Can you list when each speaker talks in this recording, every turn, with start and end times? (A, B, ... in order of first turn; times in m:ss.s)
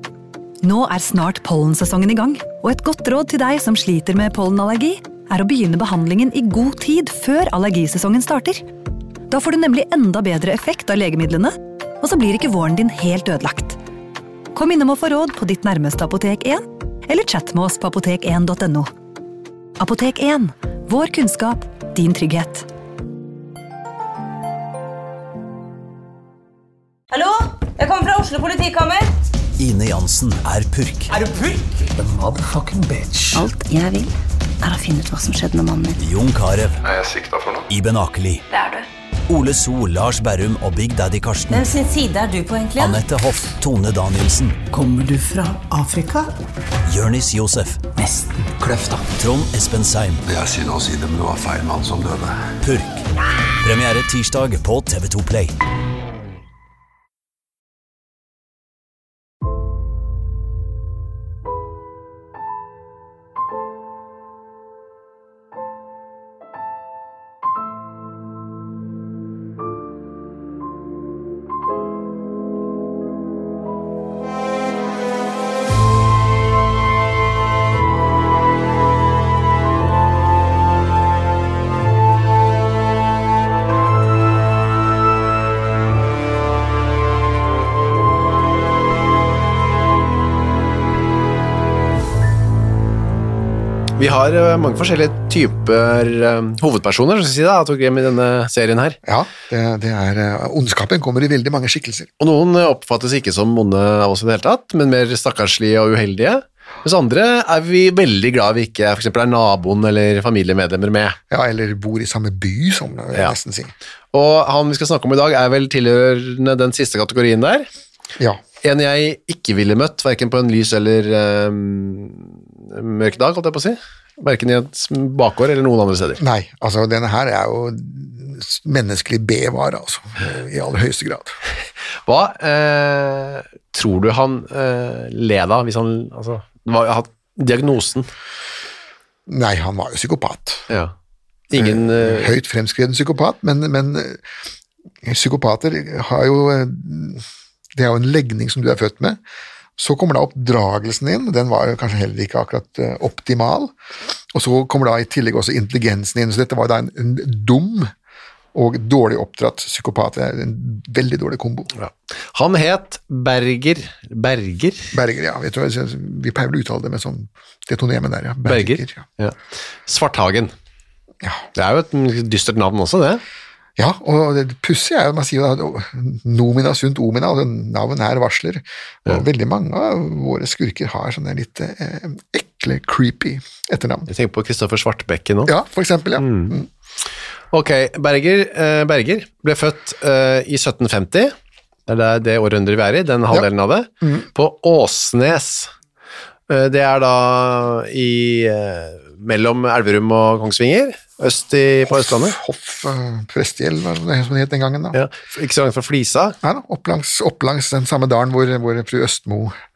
0:00.6-0:08.6 A
0:09.3-0:13.8 A
0:14.5-0:18.9 A
0:19.8-0:22.7 A
0:27.1-0:29.1 B
0:29.6-0:31.1 C
0:31.1-0:31.9 B
0:32.0-0:33.5 D
0:33.3-0:36.0 E
0:36.0-0:36.8 C
0:36.8-0:37.7 F
0:37.7-0:38.4 C
0:38.5-0:38.9 B
0:39.3-0:41.7 C
0:41.5-0:43.0 B
0:42.8-0:44.6 C
0:44.7-0:46.3 D
0:46.8-0:47.9 C
0:47.9-0:49.1 D
0:49.1-0:50.2 C
0:50.3-0:52.5 F
0:52.6-0:53.0 C
0:53.6-0:55.5 C
1:34.0-1:39.0 G
1:39.0-1:42.1 H
1:42.2-1:51.2 G
1:51.3-1:53.7 H
1:54.1-1:57.7 G
1:58.6-2:06.2 G
2:06.2-2:11.4 H
2:12.0-2:18.1 G
2:19.3-2:20.7 H
2:21.5-2:22.4 G
2:21.5-2:24.2 H
2:25.0-2:29.2 H
2:29.8-2:33.7 H
2:34.3-2:37.9 H
2:38.5-2:41.7 H
2:41.8-2:44.9 G
2:44.9-2:49.1 H
2:48.4-2:50.5 G
2:51.5-2:53.2 G
2:53.8-3:04.1 H
3:04.1-3:05.5 G
3:05.4-3:06.7 H
3:06.2-3:06.6 G
3:07.5-3:11.3 G
3:11.9-3:15.7 G
3:16.5-3:22.4 G
3:21.9-3:25.0 H
3:24.9-3:26.4 G
3:26.4-3:29.5 H